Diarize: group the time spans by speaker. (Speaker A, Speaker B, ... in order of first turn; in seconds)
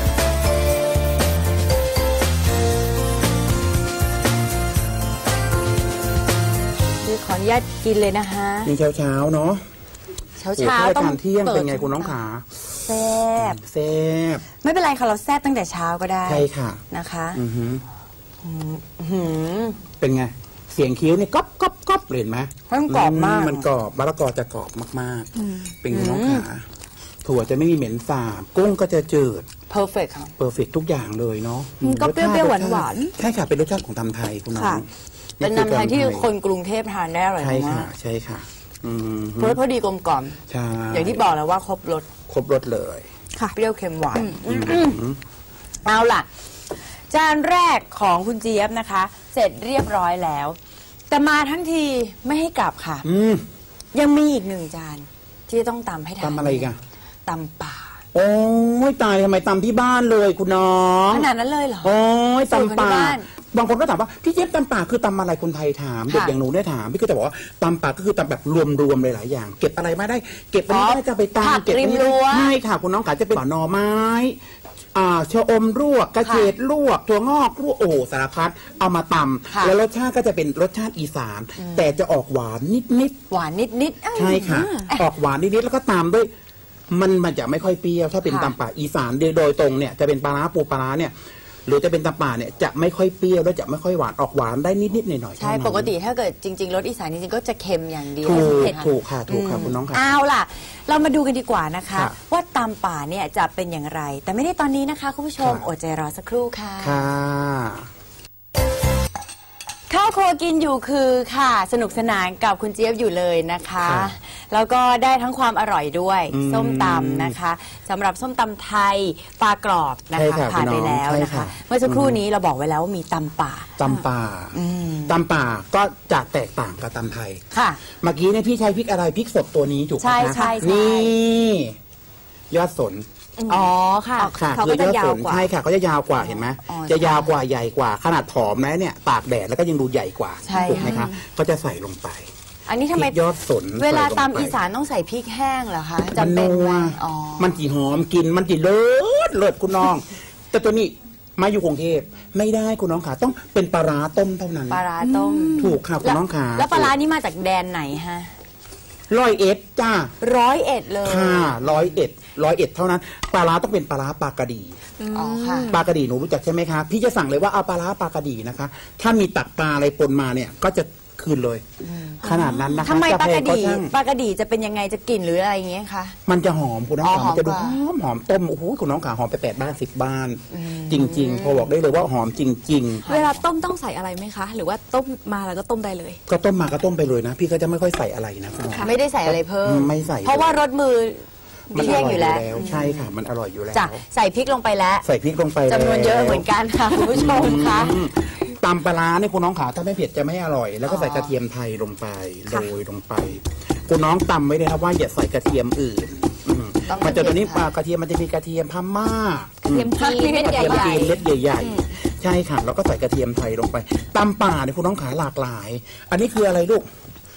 Speaker A: 7.0-8.7, 10.4-12.2, 12.7-13.6, 14.6-17.4, 18.4-19.8, 22.7-23.7, 25.9-26.5, 29.7-30.3, 35.4-37.9, 39.4-40.4, 40.9-42.1, 43.5-45.0, 45.8-46.3, 47.1-50.6, 51.1-53.1, 53.9-56.7, 57.3-58.0, 61.1-61.9, 62.4-63.3, 66.1-66.4, 70.7-72.5, 76.2-76.5, 79.5-79.8, 81.6-82.0, 83.3-85.0, 88.2-88.5, 95.4-107.1, 109.9-123.7, 124.5-125.2, 127.5-127.8, 130.0-131.1, 133.5-134.3, 136.2-137.4, 140.4-141.1, 142.7-143.2, 143.8-147.6, 154.7-158.3, 160.2-161.9, 165.1-165.7, 171.8-172.2, 172.8-176.2, 177.0-177.8, 180.5-181.7, 183.0-183.4, 188.8-193.1, 193.7-195.1, 195.7-198.0, 200.9-201.3, 206.9-207.7, 210.0-211.2
Speaker B: 8.6-9.6, 10.6-14.4, 16.2-16.8, 17.3-17.8, 20.0-26.6, 27.2-29.5, 30.4-34.9, 35.4-36.3, 37.4-39.6, 40.5-41.3, 42.3-43.1, 44.4-45.2, 53.0-53.4, 56.2-56.8, 58.1-61.3, 61.8-74.4, 74.9-83.2, 84.2-86.3, 86.9-91.1, 91.7-95.9, 98.2-100.0, 105.4-105.7, 106.8-107.9, 113.8-114.1, 116.3-117.3, 120.1-122.2, 123.8-124.5, 125.1-131.8, 132.5-133.1, 134.3-142.3, 142.9-144.6, 146.2-154.8, 155.6-156.9, 159.1-160.1, 161.0-164.8, 165.7-171.6, 172.2-173.9, 176.2-183.1, 186.3-190.6, 191.7-194.0, 195.0-216.9
Speaker C: 31.8-33.1, 34.5-34.8, 44.1-44.7, 84.3-84.9, 130.3-130.7, 133.4-135.5, 140.5-141.1, 155.0-155.8, 165.0-165.8, 172.2-172.9, 183.1-186.2, 191.7-192.7, 209.7-211.8